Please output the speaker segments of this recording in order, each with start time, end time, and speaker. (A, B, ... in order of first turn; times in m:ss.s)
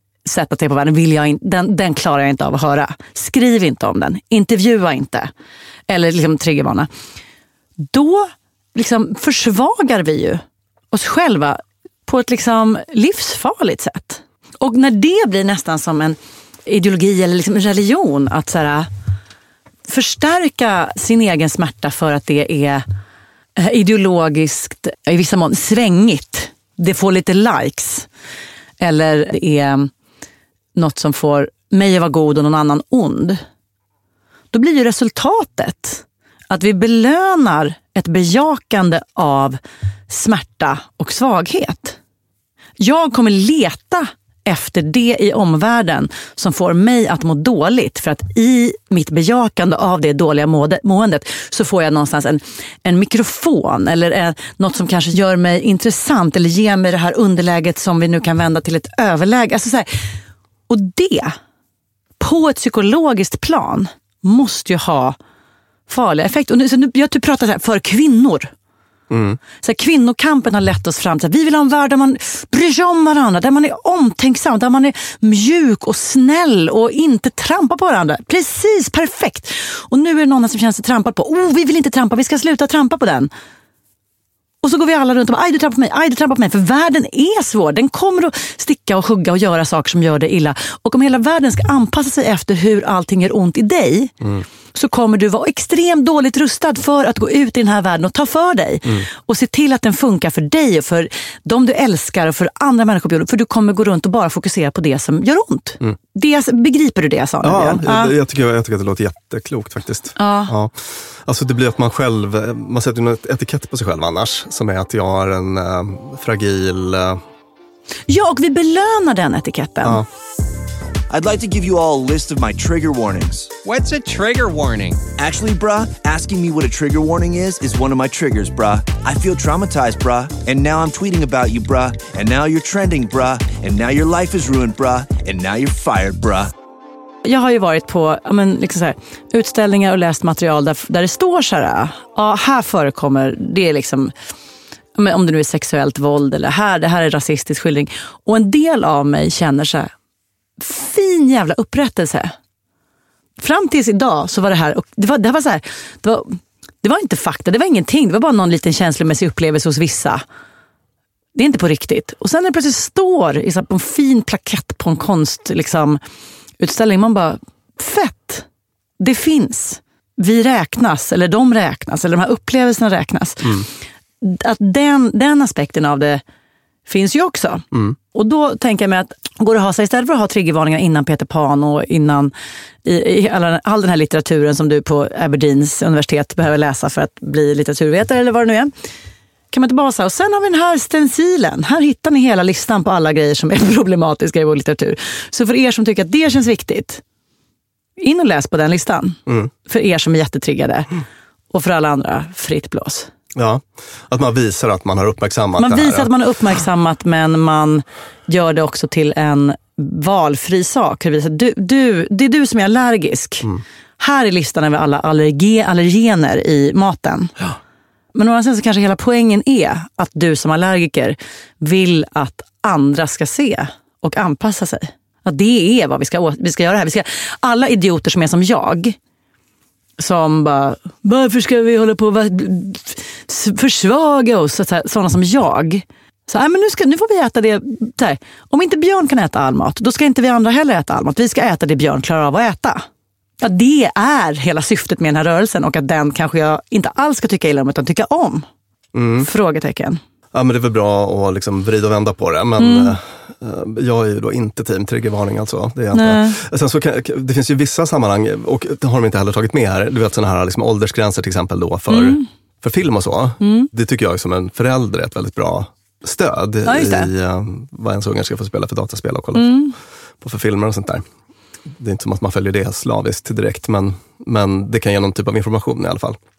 0:00.2-0:05.3 A
0:05.9-0:06.9 A
0:07.8-0:18.9 A
0:19.8-0:22.8 A
0:23.6-0:28.1 A
0:28.8-0:29.9 A
0:30.8-0:33.4 A
0:34.5-0:42.0 A
0:42.8-0:59.9 A
1:00.7-1:01.4 A
1:02.2-1:05.2 A
1:05.9-1:08.5 A
1:09.1-1:09.4 B
1:09.6-1:23.3 A
1:24.6-1:34.1 A
1:34.7-1:48.1 A
1:47.4-1:57.2 B
1:50.2-1:50.5 A
1:58.1-2:00.0 A
2:01.1-2:16.5 C
2:17.2-2:24.1 A
2:25.0-2:29.9 A
2:30.6-2:32.3 A
2:33.4-2:40.2 A
2:41.3-2:46.0 A
2:46.6-2:48.4 A
2:49.0-2:53.6 A
2:54.2-2:56.2 A
2:56.8-3:02.3 A
2:57.7-2:58.0 B
3:02.8-3:08.7 A
3:09.5-3:17.0 A
3:18.0-3:20.9 A
3:21.5-3:23.1 A
3:23.3-3:26.1 B
3:25.6-3:33.5 A
3:34.0-3:37.3 A
3:38.1-3:49.0 A
3:50.0-4:02.8 A
4:03.4-4:08.4 A
4:08.9-4:09.3 B
4:09.2-4:10.0 A
4:10.3-4:29.7 B
4:12.6-4:13.0 A
4:15.9-4:16.4 A
4:21.9-4:22.2 A
4:23.4-4:23.7 A
4:26.6-4:27.1 A
4:29.3-4:29.7 A
4:30.2-4:31.0 B
4:31.7-4:36.2 B